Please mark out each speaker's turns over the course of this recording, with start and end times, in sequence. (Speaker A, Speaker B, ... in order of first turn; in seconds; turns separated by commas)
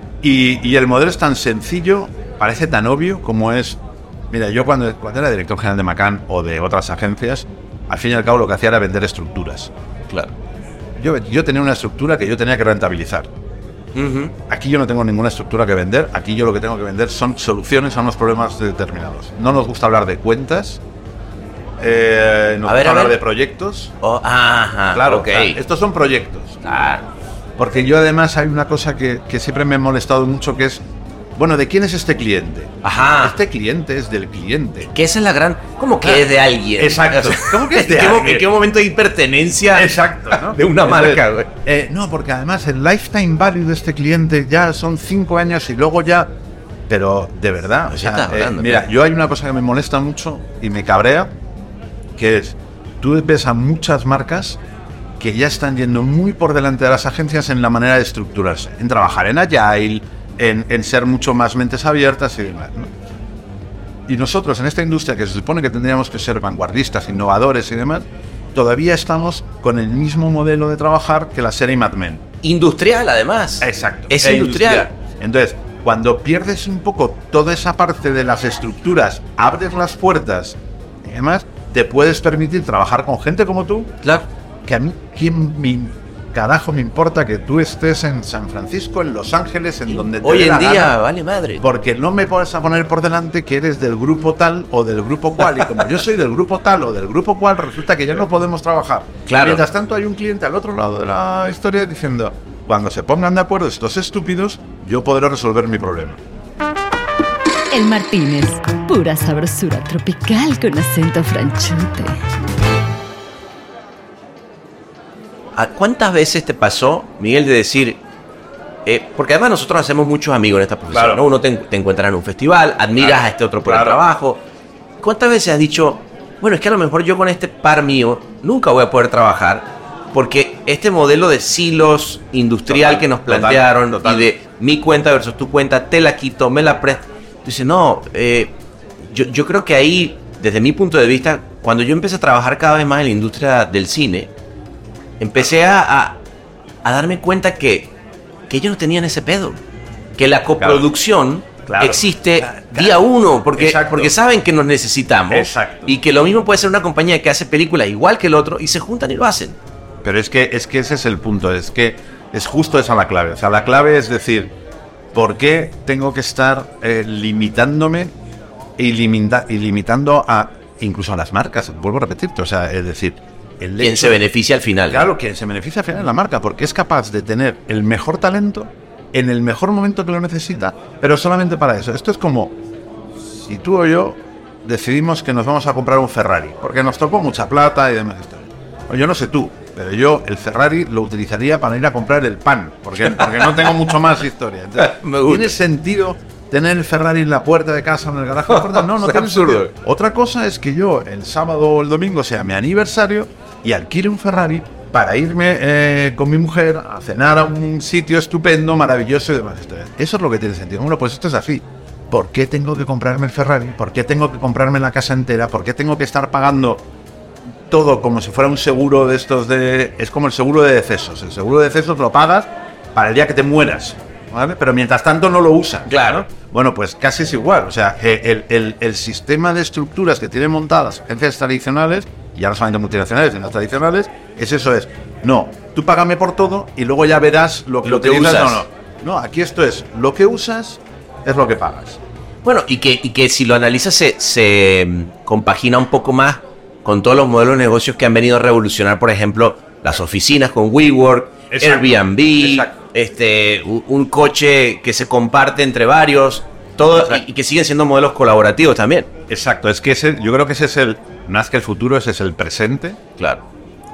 Speaker A: 0.2-9.7, Speaker A: 11.0-13.3, Speaker B: 13.9-14.3, Speaker A: 14.5-20.8, Speaker A: 21.8-23.9, Speaker B: 22.6-23.2, Speaker B: 24.0-25.6, Speaker A: 24.9-26.6, Speaker B: 26.6-27.1, Speaker A: 27.6-30.8, Speaker A: 31.4-34.9, Speaker B: 32.8-33.4, Speaker B: 34.9-41.5, Speaker A: 36.0-38.5, Speaker A: 39.7-46.3, Speaker A: 46.9-51.3, Speaker B: 47.9-48.9, Speaker A: 52.2-54.6, Speaker A: 55.2-62.9, Speaker A: 64.1-72.2, Speaker B: 72.4-74.9, Speaker A: 73.6-84.1, Speaker A: 84.6-91.0, Speaker B: 90.2-91.6, Speaker A: 91.6-106.2, Speaker B: 99.3-99.6, Speaker C: 107.7-112.2, Speaker B: 115.5-118.0, Speaker B: 118.8-124.4, Speaker A: 120.9-121.2, Speaker A: 123.0-124.0, Speaker B: 125.0-144.3, Speaker A: 132.7-134.3, Speaker B: 145.2-146.2, Speaker B: 146.8-147.9, Speaker B: 148.5-149.6, Speaker B: 150.2-159.6, Speaker A: 150.6-150.9, Speaker A: 151.7-154.2, Speaker A: 155.3-155.9, Speaker A: 160.0-164.5, Speaker A: 165.1-168.1, Speaker A: 168.8-174.2, Speaker B: 173.8-175.1, Speaker A: 174.9-182.6, Speaker A: 183.2-216.8, Speaker B: 193.1-193.7, Speaker B: 194.8-195.6, Speaker B: 198.5-199.7, Speaker A: 217.7-242.0, Speaker B: 225.9-226.2, Speaker B: 237.8-238.6, Speaker B: 242.4-259.1, Speaker A: 251.5-252.8, Speaker A: 256.9-257.2, Speaker A: 259.3-263.0, Speaker B: 263.2-263.4